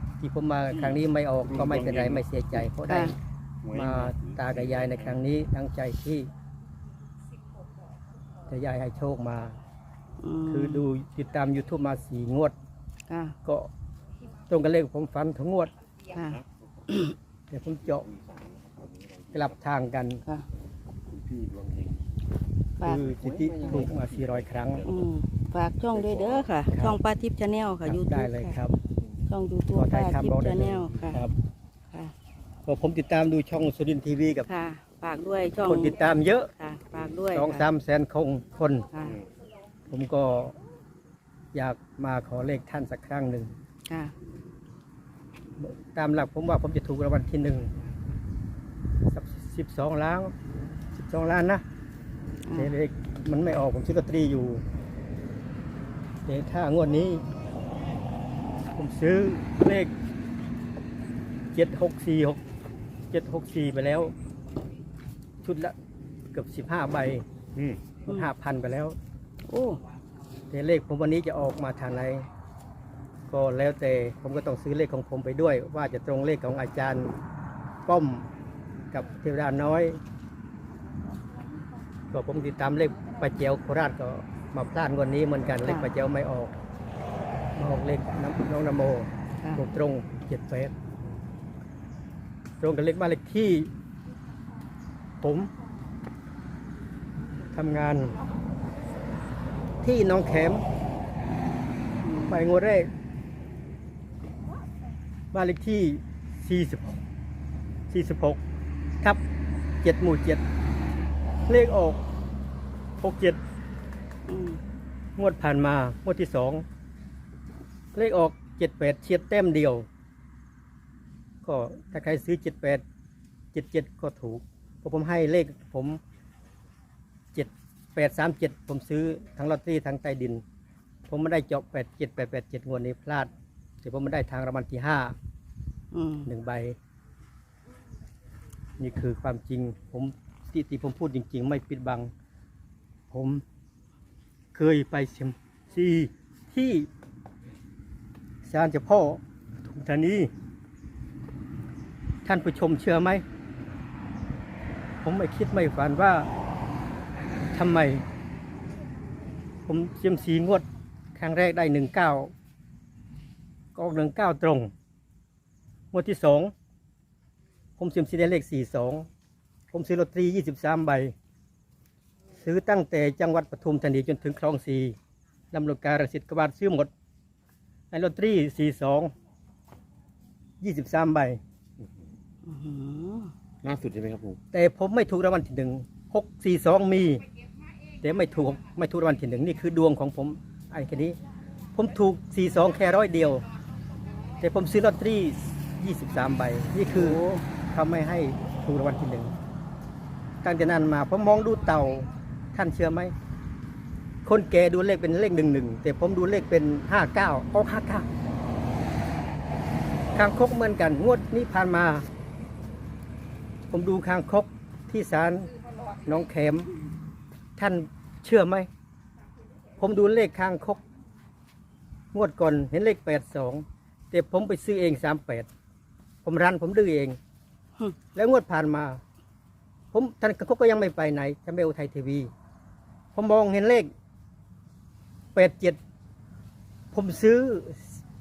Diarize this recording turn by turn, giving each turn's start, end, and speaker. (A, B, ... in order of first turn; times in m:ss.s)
0:00.2-0:03.2 A
0:01.4-0:02.2 B
0:02.9-0:03.1 C
0:03.6-0:05.2 B
0:03.7-0:06.3 A
0:08.5-0:09.6 A
0:10.2-0:10.8 C
0:10.5-0:12.5 A
0:13.1-0:13.4 C
0:13.4-0:13.7 A
0:14.5-0:15.7 A
0:16.1-0:16.4 C
0:16.1-0:16.7 B
0:16.9-0:17.1 C
0:17.5-0:18.0 A
0:17.9-0:19.6 B
0:19.3-0:20.2 A
0:21.1-0:22.0 B
0:22.8-0:24.8 A
0:22.9-0:25.0 B
0:24.8-0:28.6 C
0:25.9-0:26.5 B
0:26.7-0:27.0 A
0:27.8-0:28.8 A
0:29.3-0:31.2 C
0:29.7-0:31.4 A
0:32.6-0:34.5 A
0:34.5-0:37.6 C
0:35.6-0:36.5 A
0:37.3-0:38.9 A
0:39.9-0:40.6 A
0:41.5-0:43.5 A
0:43.9-0:44.1 C
0:45.6-0:47.7 A
0:49.1-0:50.3 A
0:51.0-0:51.6 A
0:52.5-0:52.7 C
0:52.5-0:54.6 A
0:56.2-0:57.2 A
0:58.8-0:59.9 A
1:01.5-1:02.4 A
1:03.1-1:04.1 A
1:05.4-1:05.7 A
1:06.3-1:07.2 A
1:07.5-1:07.8 B
1:08.0-1:09.0 A
1:09.5-1:09.8 C
1:10.5-1:12.2 A
1:13.3-1:17.1 A
1:17.8-1:18.3 A
1:18.9-1:20.0 A
1:22.1-1:26.5 A
1:27.6-1:30.7 A
1:32.6-1:33.7 A
1:35.2-1:35.5 A
1:37.5-1:38.2 A
1:39.8-1:40.6 A
1:42.0-1:42.4 C
1:42.3-1:42.9 A
1:45.3-1:47.0 A
1:47.9-1:48.4 A
1:49.8-1:50.4 A
1:51.5-1:52.0 A
1:53.0-1:53.4 A
1:54.3-1:54.6 C
1:55.2-1:56.6 A
1:57.9-1:59.8 A
2:01.4-2:02.8 A
2:03.5-2:06.0 A
2:07.3-2:10.4 A
2:11.1-2:13.3 A
2:13.8-2:15.1 A
2:15.9-2:16.3 C
2:16.2-2:16.8 A
2:18.8-2:22.1 A
2:23.1-2:23.4 A
2:24.5-2:26.9 A
2:28.4-2:30.3 A
2:32.2-2:33.2 A
2:35.0-2:36.3 A
2:37.5-2:38.0 A
2:39.7-2:40.6 A
2:41.2-2:42.3 A
2:43.7-2:44.7 A
2:45.9-2:46.5 A
2:47.8-2:49.1 A
2:49.7-2:51.1 A
2:52.4-2:55.0 A
2:55.5-2:56.9 A
2:57.9-2:59.1 A
3:00.6-3:01.4 A
3:02.4-3:03.3 C
3:03.6-3:04.4 B
3:04.5-3:07.2 A
3:08.0-3:11.2 A
3:11.7-3:13.4 A
3:14.4-3:19.3 A
3:16.9-3:17.4 C
3:20.4-3:23.1 A
3:24.2-3:28.1 A
3:30.1-3:32.0 A
3:33.7-3:35.5 A
3:36.0-3:36.7 A
3:37.6-3:38.7 A
3:39.8-3:40.8 A
3:42.1-3:45.5 A
3:46.2-3:47.2 A
3:48.1-3:49.0 A
3:49.9-3:52.3 A
3:53.1-3:53.9 A
3:55.3-3:55.8 A
3:56.9-3:58.0 A